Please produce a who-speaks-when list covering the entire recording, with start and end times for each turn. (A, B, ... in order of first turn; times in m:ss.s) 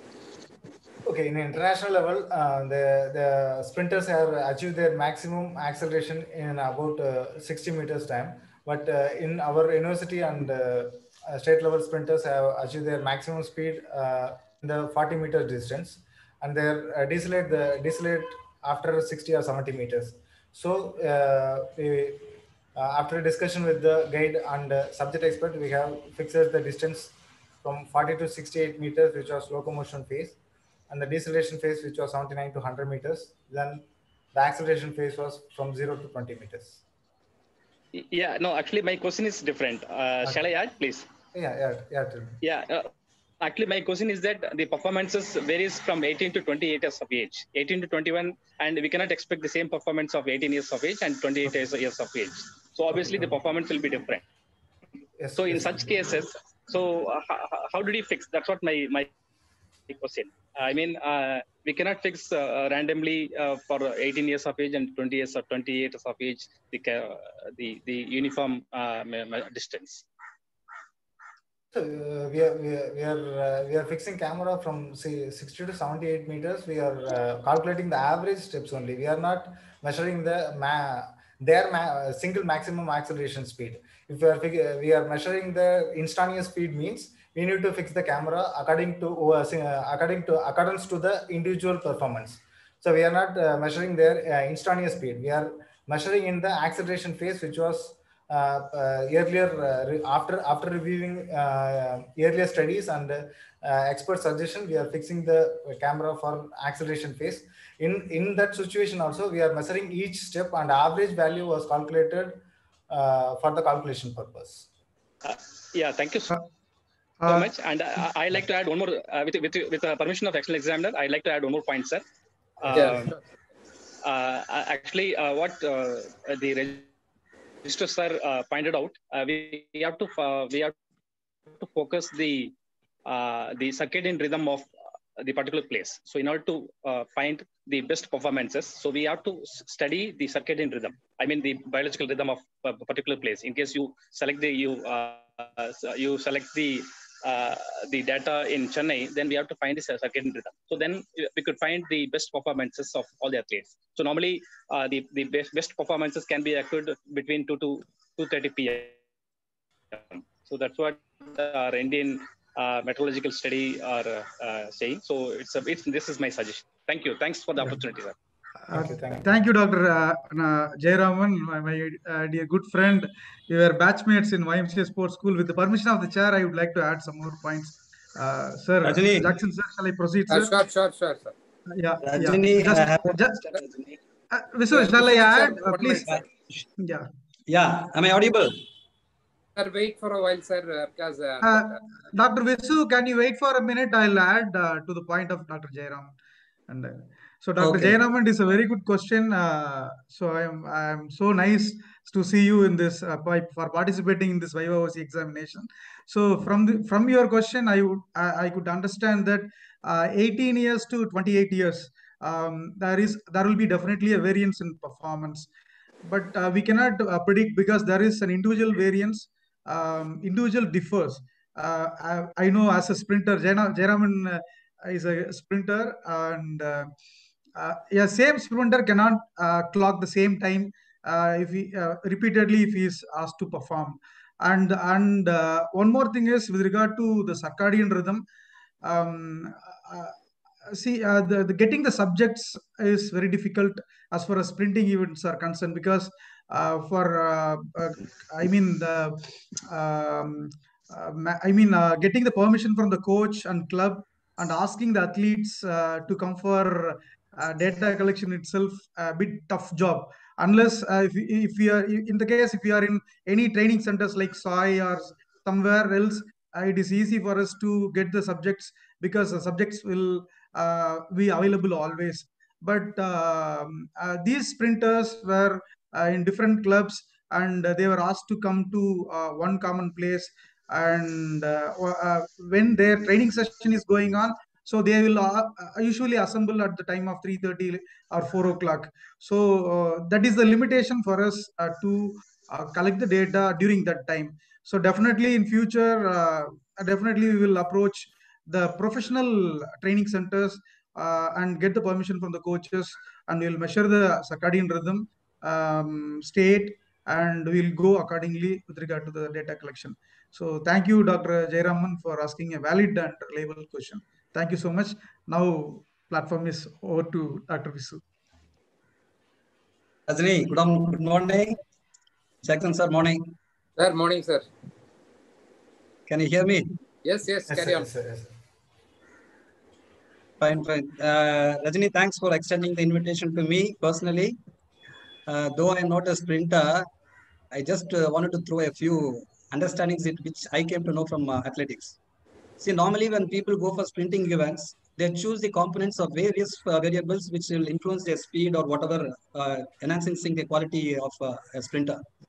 0:01.0-0:30.4 A
0:30.9-0:36.8 A
0:37.9-0:41.1 B
0:41.3-0:42.4 A
0:42.4-0:42.9 B
0:43.4-0:54.2 B
0:53.0-0:53.2 A
0:55.2-0:56.2 A
0:55.3-0:59.1 B
0:59.9-1:10.0 B
1:11.7-1:54.7 A
1:55.2-1:56.3 B
1:57.2-1:57.5 C
1:57.3-2:02.0 B
2:02.6-2:03.2 B
2:02.7-2:03.2 D
2:04.0-2:06.9 B
2:07.6-2:10.8 B
2:11.5-2:12.5 B
2:13.1-2:39.0 B
2:39.9-2:48.2 B
2:48.6-3:00.5 C
2:48.7-2:49.4 A
2:58.8-2:59.3 E
3:00.3-3:01.4 D
3:01.7-3:03.5 C
3:02.0-3:04.0 E
3:04.3-3:06.1 C
3:04.7-3:06.6 E
3:06.8-3:07.1 C
3:07.5-3:08.6 E
3:09.6-3:11.8 D
3:11.4-3:16.2 C
3:16.7-3:35.5 C
3:17.6-3:18.0 E
3:36.0-3:46.9 C
3:47.6-3:58.2 C
3:58.8-5:18.0 C
5:20.1-5:21.6 E
5:22.4-5:23.2 E
5:23.8-5:24.5 D
5:26.1-5:26.7 E
5:27.0-5:27.9 D
5:27.5-5:28.3 A
5:30.4-5:34.4 E
5:35.3-5:36.9 E
5:37.5-5:42.0 E
5:42.6-5:52.0 E